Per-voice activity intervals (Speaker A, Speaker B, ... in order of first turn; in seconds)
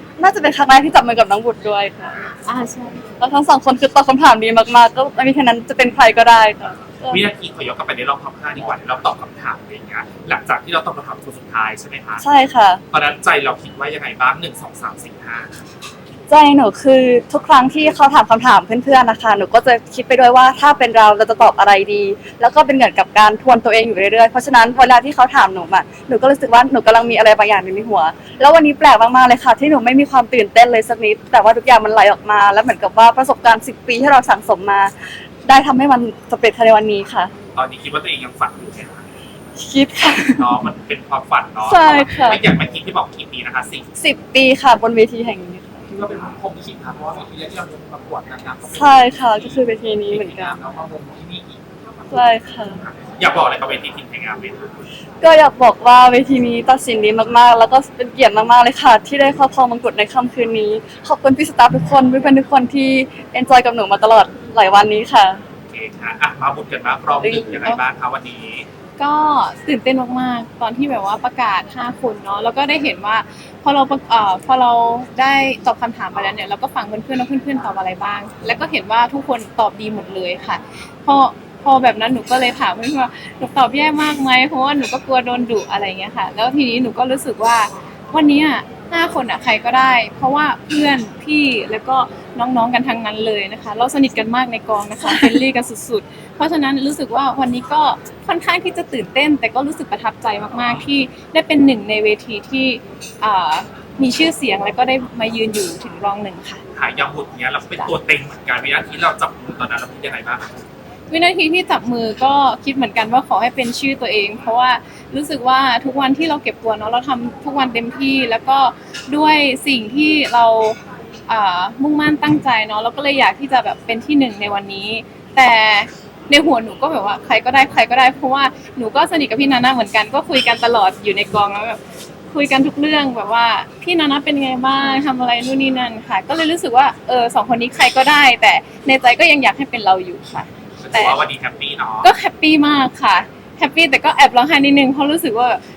Speaker A: 0.2-7.2, 12.2-12.8, 16.3-37.3, 39.6-40.5, 41.6-42.4, 44.0-45.8, 48.7-50.5, 52.1-52.8, 55.2-65.4, 67.2-67.7
Speaker B: 2.4-3.0, 69.0-106.6, 111.1-131.8, 132.3-141.2, 142.0-145.6
Speaker C: 7.1-12.2, 12.9-15.6, 37.5-39.0, 40.3-43.9, 45.9-54.9, 65.7-68.7, 106.7-110.7, 140.8-142.1